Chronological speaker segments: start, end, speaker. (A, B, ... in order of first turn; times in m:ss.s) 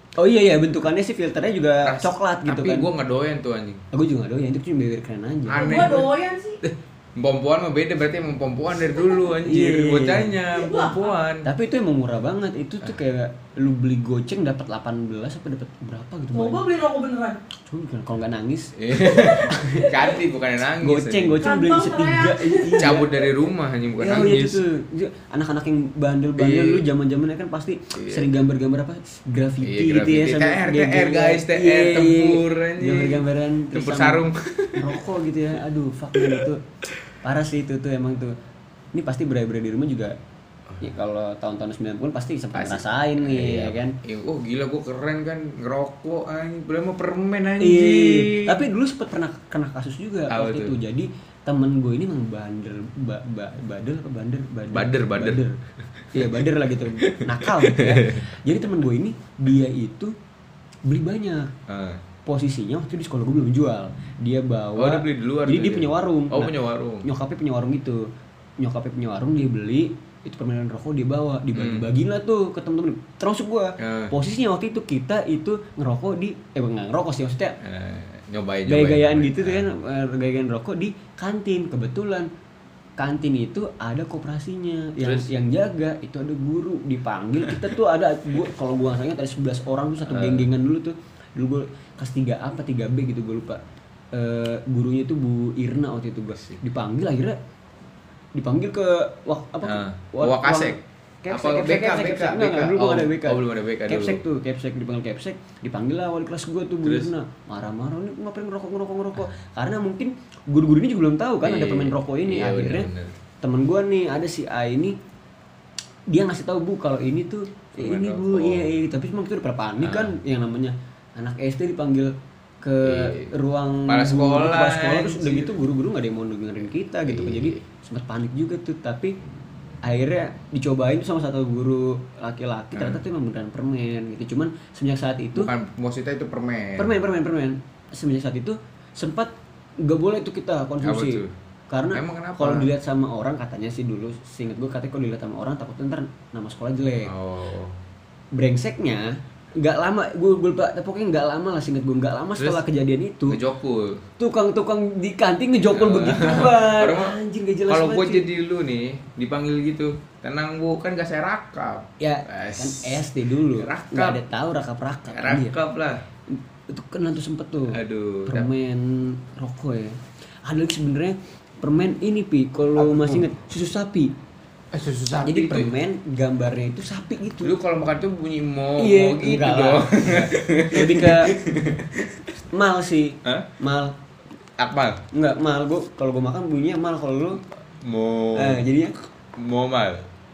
0:00.2-0:02.9 A
0:01.8-0:03.8 B
0:03.9-0:05.9 A
0:05.5-0:06.1 B
0:05.5-0:06.6 C
0:06.6-0:11.5 B
0:09.4-0:10.4 A
0:10.5-0:11.2 C
0:11.4-0:16.6 A
0:16.3-0:17.4 C
0:17.7-0:18.8 A
0:18.8-0:21.4 B
0:19.0-0:20.2 C
0:19.5-0:19.9 A
0:20.8-0:23.1 A
0:21.4-0:23.0 C
0:22.8-0:24.6 B
0:24.0-0:36.6 A
0:26.4-0:26.9 B
0:28.0-0:28.4 B
0:29.6-0:35.0 B
0:36.2-0:36.5 B
0:37.2-0:38.4 A
0:38.9-0:40.2 A
0:40.8-0:44.0 A
0:42.5-0:48.6 B
0:47.6-0:55.6 A
0:50.3-0:50.8 B
0:54.7-0:55.4 B
0:56.0-0:56.3 B
0:56.1-1:00.1 A
0:57.0-0:58.3 B
1:00.8-1:01.5 A
1:01.7-1:02.0 B
1:02.3-1:08.1 A
1:04.8-1:07.1 B
1:08.6-1:17.6 A
1:11.5-1:11.9 B
1:13.8-1:14.1 B
1:17.6-1:19.7 B
1:18.7-1:22.3 A
1:23.0-1:33.6 A
1:25.0-1:25.3 B
1:30.0-1:30.5 B
1:34.1-1:37.4 A
1:36.4-1:36.6 B
1:38.4-1:52.9 A
1:39.6-1:40.8 B
1:41.3-1:44.2 B
1:46.8-1:47.1 B
1:51.4-1:53.2 B
1:53.4-1:55.0 A
1:56.1-2:09.2 A
1:57.8-1:58.7 B
1:59.8-2:00.2 B
2:02.8-2:03.3 B
2:03.9-2:05.6 B
2:07.1-2:07.6 B
2:09.8-2:15.5 A
2:12.8-2:13.0 B
2:15.4-2:17.0 B
2:16.8-2:27.1 A
2:20.8-2:21.3 B
2:21.9-2:22.7 B
2:27.0-2:27.8 B
2:28.3-2:33.4 A
2:32.4-2:32.6 B
2:33.3-2:34.0 B
2:34.2-2:38.3 A
2:35.7-2:37.2 B
2:37.7-2:44.2 B
2:42.0-2:45.6 A
2:45.1-2:46.0 B
2:46.3-2:54.2 A
2:47.7-2:48.5 B
2:52.8-2:53.3 B
2:54.7-2:55.7 B
2:55.2-2:57.6 A
2:57.4-3:02.1 B
2:58.8-3:01.3 A
3:02.5-3:04.0 A
3:04.6-3:05.0 B
3:05.1-3:07.4 A
3:07.8-3:08.6 B
3:08.4-3:09.0 A
3:09.4-3:10.1 B